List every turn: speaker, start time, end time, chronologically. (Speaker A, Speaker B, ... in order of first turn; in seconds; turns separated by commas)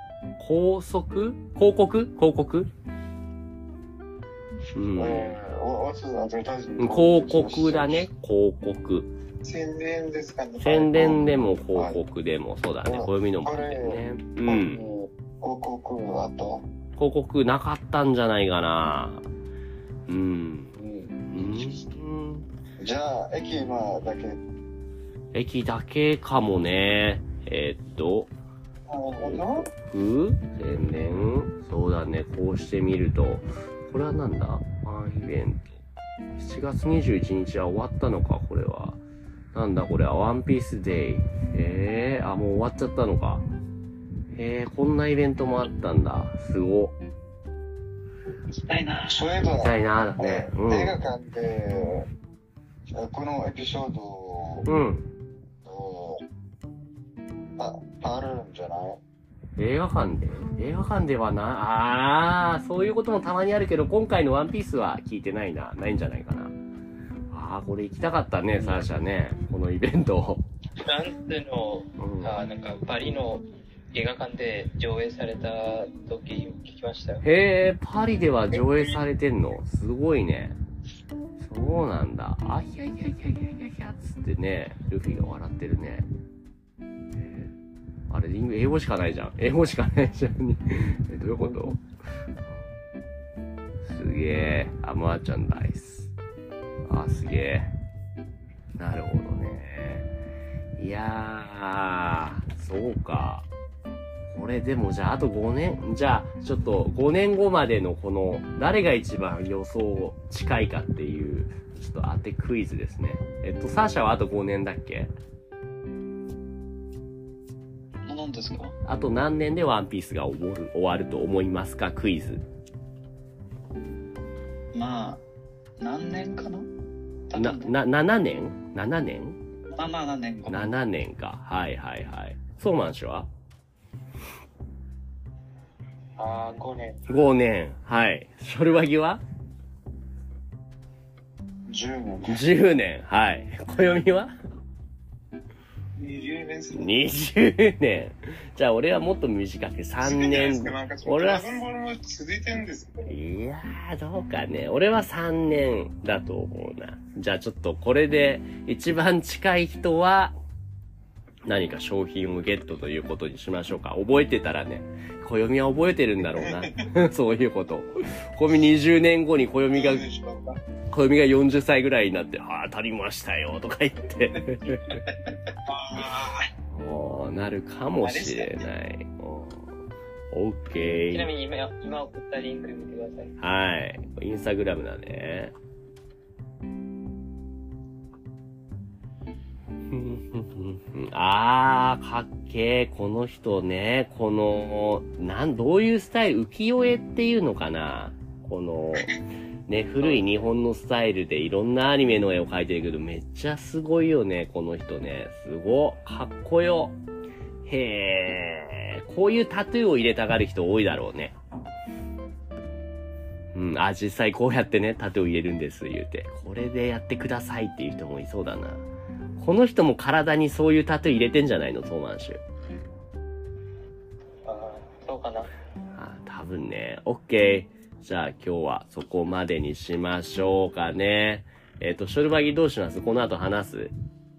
Speaker A: 0.4-2.7, Speaker A: 4.7-5.4, Speaker B: 5.0-8.1, Speaker A: 6.8-9.1, Speaker C: 9.4-11.3, Speaker A: 10.6-14.8, Speaker B: 11.7-12.0, Speaker B: 12.8-16.7, Speaker A: 17.0-19.3, Speaker A: 20.1-20.8, Speaker B: 20.8-21.9, Speaker A: 21.3-22.5, Speaker B: 22.8-24.4, Speaker A: 25.3-28.3, Speaker C: 28.9-29.7, Speaker B: 29.2-29.6, Speaker A: 29.2-35.8, Speaker A: 36.4-39.0, Speaker A: 39.5-43.5, Speaker A: 44.3-47.0, Speaker D: 48.5-49.4, Speaker B: 49.1-52.1, Speaker A: 49.6-51.0, Speaker B: 52.9-54.7, Speaker A: 54.7-55.1, Speaker B: 55.6-56.2, Speaker B: 57.6-59.0, Speaker A: 59.6-66.5, Speaker A: 67.3-70.5, Speaker B: 68.6-68.9, Speaker E: 70.8-77.2, Speaker A: 72.0-72.4, Speaker A: 77.2-80.6, Speaker A: 81.4-86.1, Speaker A: 88.1-91.8, Speaker A: 93.8-96.1, Speaker A: 96.9-97.7, Speaker A: 98.8-100.1, Speaker A: 100.8-103.5, Speaker A: 104.3-115.1, Speaker D: 118.0-118.8, Speaker A: 118.8-122.4, Speaker D: 124.7-125.2, Speaker D: 125.8-126.7, Speaker D: 127.3-127.8, Speaker A: 127.3-129.4, Speaker D: 129.7-130.7, Speaker A: 130.5-133.3, Speaker E: 136.2-137.0, Speaker A: 137.1-139.2, Speaker B: 141.7-142.5, Speaker A: 142.3-144.3, Speaker C: 146.0-147.0, Speaker A: 146.7-151.7, Speaker C: 150.0-153.1, Speaker A: 153.1-160.4, Speaker A: 161.5-170.1, Speaker C: 166.4-166.7, Speaker C: 169.7-170.6, Speaker A: 170.9-175.0, Speaker C: 175.7-176.5, Speaker A: 176.7-179.7, Speaker E: 178.0-178.7, Speaker A: 180.3-181.3, Speaker E: 181.1-183.4, Speaker A: 183.4-185.6, Speaker A: 189.9-207.0, Speaker A: 207.7-211.4, Speaker A: 213.5-218.8, Speaker A: 219.4-222.4, Speaker E: 224.5-225.5, Speaker A: 225.9-233.9